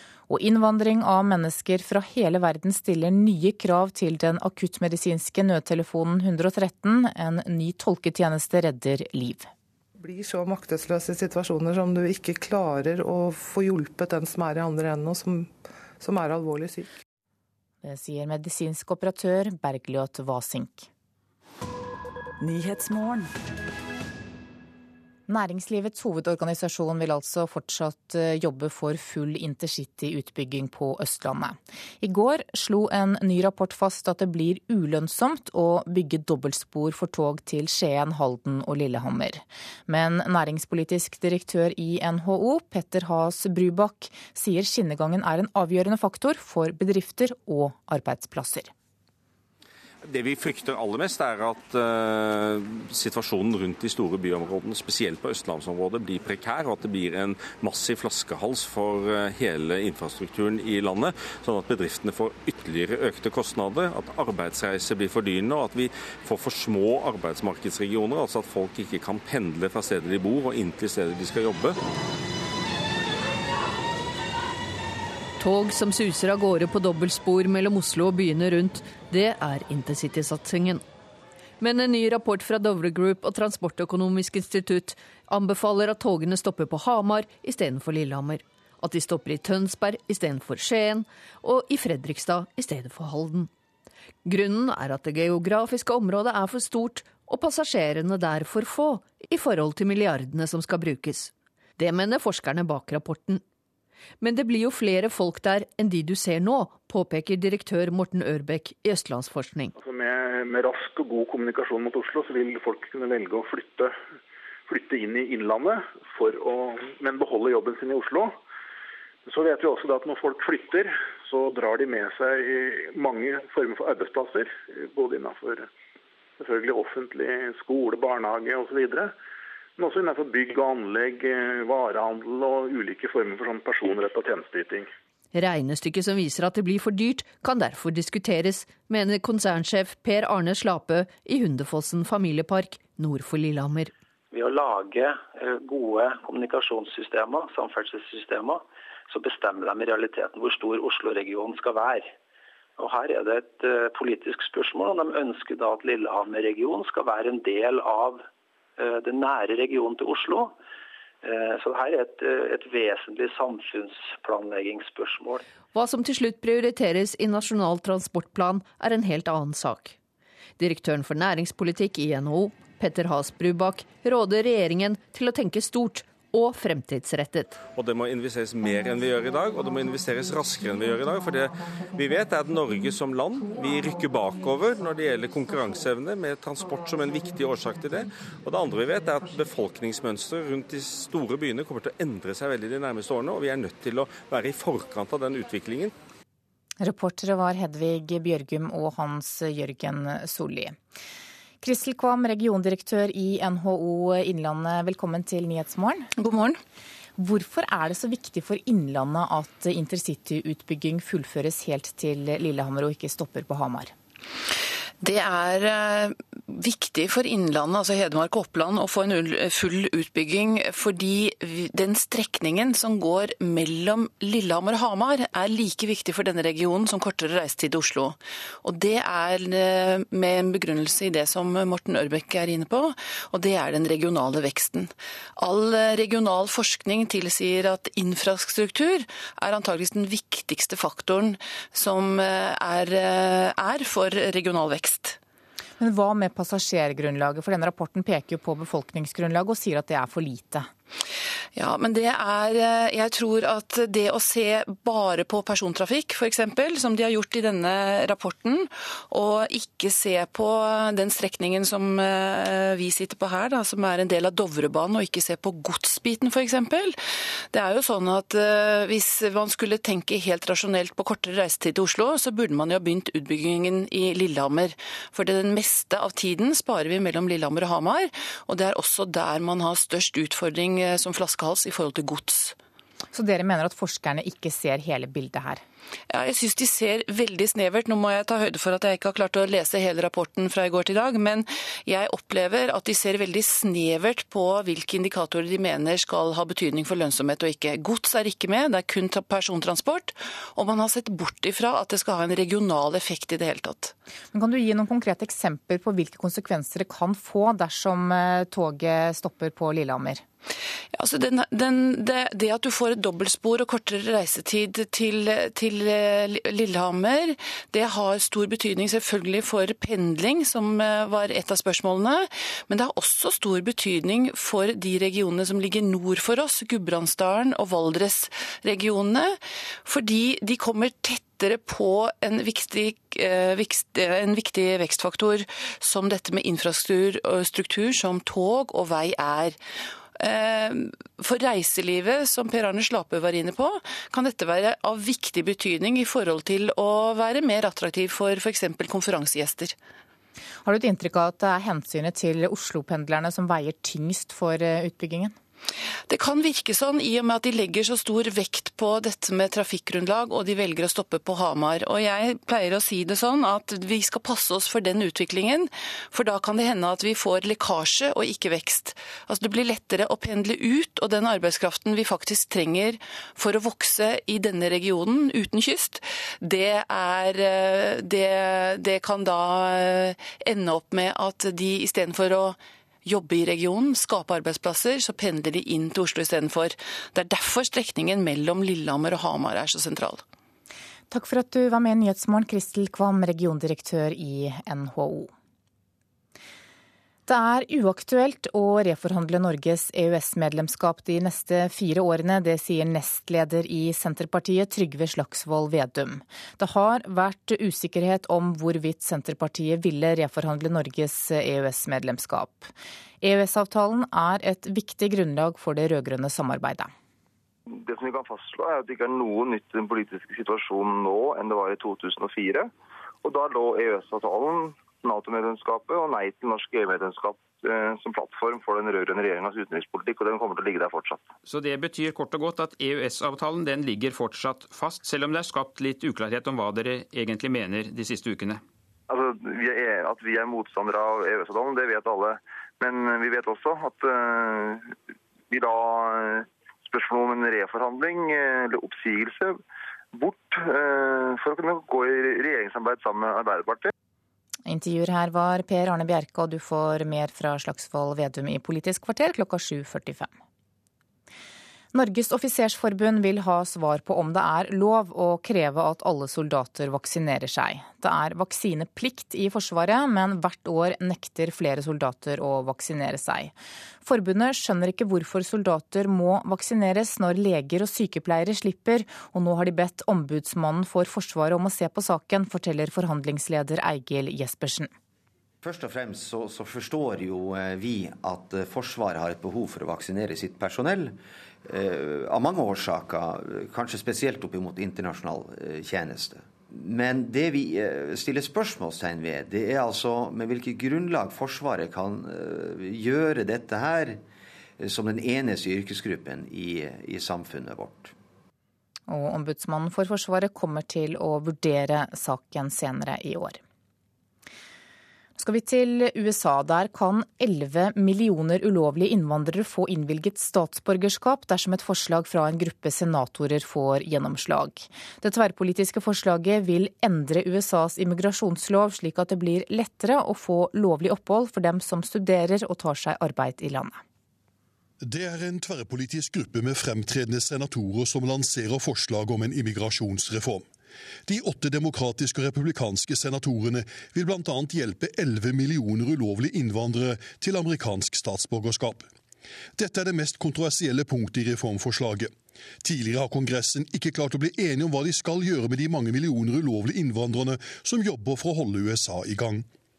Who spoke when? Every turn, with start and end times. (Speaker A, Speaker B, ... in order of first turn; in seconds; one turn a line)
Speaker A: 0.3-9.5
Speaker B: 10.0-16.9
Speaker A: 17.8-20.9
Speaker A: 25.3-48.7
Speaker C: 50.0-71.8
Speaker D: 75.4-80.8
Speaker D: 81.6-93.5
Speaker D: 94.2-103.4
Speaker D: 104.2-109.7
Speaker E: 109.8-113.9
Speaker E: 114.7-118.4
Speaker E: 119.3-125.7
Speaker E: 126.4-129.1
Speaker E: 129.8-134.9
Speaker D: 135.3-143.9
Speaker F: 144.3-148.6
Speaker F: 149.1-152.1
Speaker F: 152.8-158.2
Speaker F: 158.8-160.5
Speaker F: 161.2-165.4
Speaker D: 165.7-170.0
Speaker D: 170.6-177.6
Speaker C: 177.7-195.9
Speaker A: 196.8-200.8
Speaker A: 201.6-206.1
Speaker G: 206.2-206.6
Speaker A: 207.2-213.9
Speaker G: 215.0-245.2
Speaker A: 245.8-250.7
Speaker G: 251.5-267.0
Speaker G: 267.5-282.6
Speaker A: 283.1-285.6
Speaker G: 286.1-303.9
Speaker A: 304.3-310.2
Speaker G: 310.9-339.6
Speaker G: 340.2-349.8
Speaker A: 350.6-355.4
Speaker G: 356.1-390.2
Speaker A: 391.1-395.3
Speaker A: 397.2-416.9
Speaker H: 417.7-422.7
Speaker H: 423.2-431.2
Speaker I: 431.4-438.6
Speaker H: 439.1-444.9
Speaker H: 445.5-449.6
Speaker H: 450.1-453.9
Speaker A: 454.6-460.3
Speaker A: 461.9-484.9
Speaker J: 485.6-491.1
Speaker J: 491.7-504.2
Speaker J: 504.8-508.1
Speaker A: 509.1-513.6
Speaker A: 515.4-534.0
Speaker K: 535.0-540.7
Speaker K: 541.2-549.1
Speaker K: 549.8-559.6